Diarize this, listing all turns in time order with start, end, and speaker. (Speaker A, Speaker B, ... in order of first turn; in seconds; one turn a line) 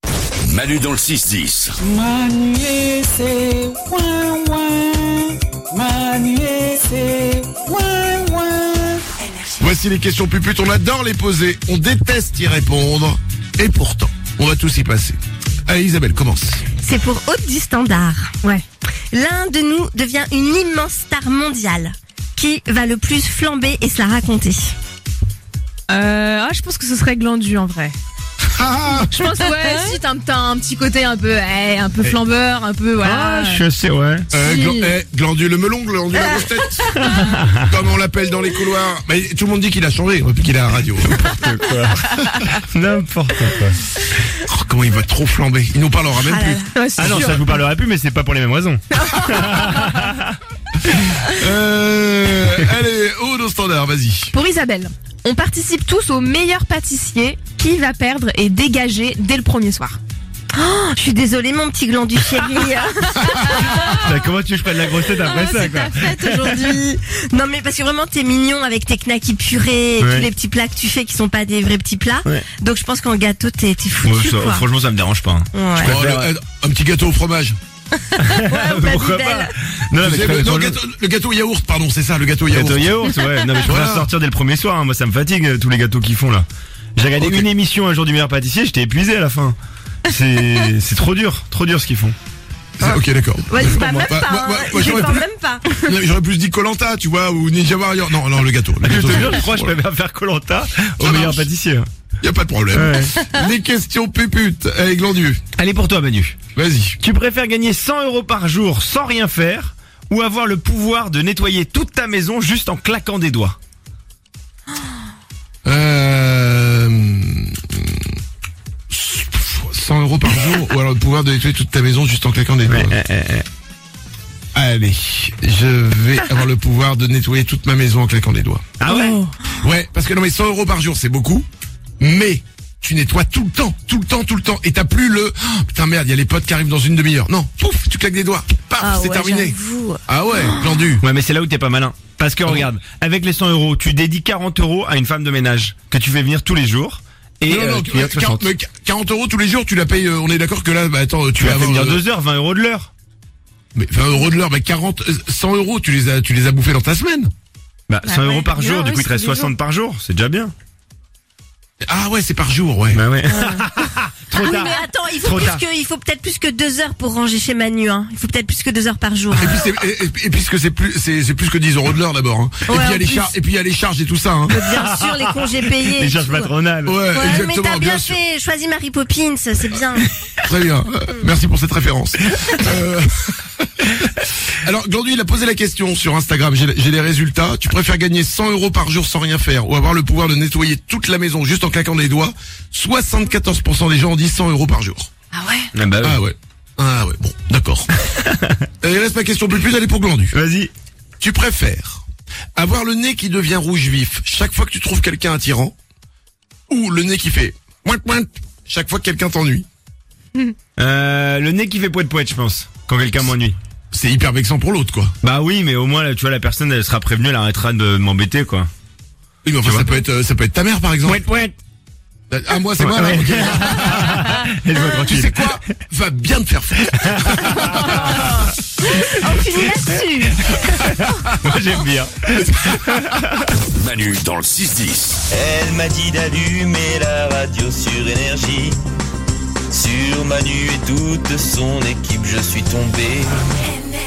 Speaker A: 0.5-1.8
Speaker B: 1.8-9.0
Speaker C: 9.6-16.6
Speaker D: 16.8-18.4
Speaker D: 19.1-24.7
Speaker E: 25.9-27.9
Speaker C: 28.5-29.1
Speaker E: 29.1-33.6
Speaker D: 29.3-29.9
Speaker F: 33.0-34.3
Speaker C: 34.3-36.9
Speaker E: 34.4-34.9
Speaker D: 36.2-37.1
Speaker F: 37.0-37.6
Speaker C: 37.6-41.2
Speaker F: 41.0-43.8
Speaker C: 44.5-46.6
Speaker D: 46.2-46.7
Speaker E: 46.7-47.5
Speaker F: 47.0-50.4
Speaker C: 51.3-54.3
Speaker E: 54.3-60.0
Speaker D: 60.5-64.0
Speaker F: 64.0-66.7
Speaker E: 65.2-65.9
Speaker D: 65.9-74.7
Speaker F: 70.0-70.3
Speaker F: 74.0-76.3
Speaker D: 75.5-75.9
Speaker C: 75.8-77.6
Speaker F: 78.2-80.8
Speaker D: 78.4-79.5
Speaker C: 80.0-83.0
Speaker F: 82.5-89.6
Speaker C: 83.6-84.1
Speaker C: 87.2-87.4
Speaker F: 90.1-92.1
Speaker C: 92.8-99.7
Speaker D: 92.8-95.9
Speaker F: 98.8-101.9
Speaker C: 101.0-101.5
Speaker C: 102.2-105.4
Speaker F: 102.7-103.1
Speaker F: 105.5-106.4
Speaker C: 106.5-107.0
Speaker F: 107.0-113.6
Speaker C: 115.6-118.0
Speaker C: 118.9-123.0
Speaker F: 122.7-123.4
Speaker C: 124.5-128.7
Speaker F: 128.8-129.2
Speaker D: 128.9-129.3
Speaker C: 129.6-131.5
Speaker C: 132.0-141.0
Speaker D: 138.8-140.8
Speaker F: 141.0-148.5
Speaker C: 147.5-152.0
Speaker F: 151.4-152.9
Speaker C: 153.7-157.3
Speaker F: 157.9-160.5
Speaker D: 158.0-159.5
Speaker C: 161.8-163.0
Speaker F: 162.9-165.6
Speaker D: 163.3-163.7
Speaker D: 164.3-169.7
Speaker C: 169.3-174.5
Speaker D: 172.7-173.3
Speaker D: 174.5-176.6
Speaker F: 174.7-177.0
Speaker C: 176.8-178.2
Speaker D: 177.1-180.1
Speaker C: 180.4-183.3
Speaker C: 184.6-195.1
Speaker F: 195.7-196.2
Speaker C: 196.0-197.9
Speaker F: 198.1-198.6
Speaker C: 198.8-200.3
Speaker F: 200.3-200.7
Speaker C: 201.2-202.0
Speaker C: 202.6-205.7
Speaker C: 206.7-209.7
Speaker F: 210.8-213.6
Speaker C: 213.9-215.1
Speaker F: 215.2-218.7
Speaker C: 219.4-221.2
Speaker F: 219.6-220.0
Speaker F: 221.0-221.5
Speaker C: 222.3-224.2
Speaker F: 222.8-225.6
Speaker C: 224.9-228.0
Speaker F: 226.9-227.9
Speaker D: 228.8-230.6
Speaker F: 230.4-233.5
Speaker A: 233.8-235.2
Speaker G: 235.3-238.8
Speaker G: 239.7-243.3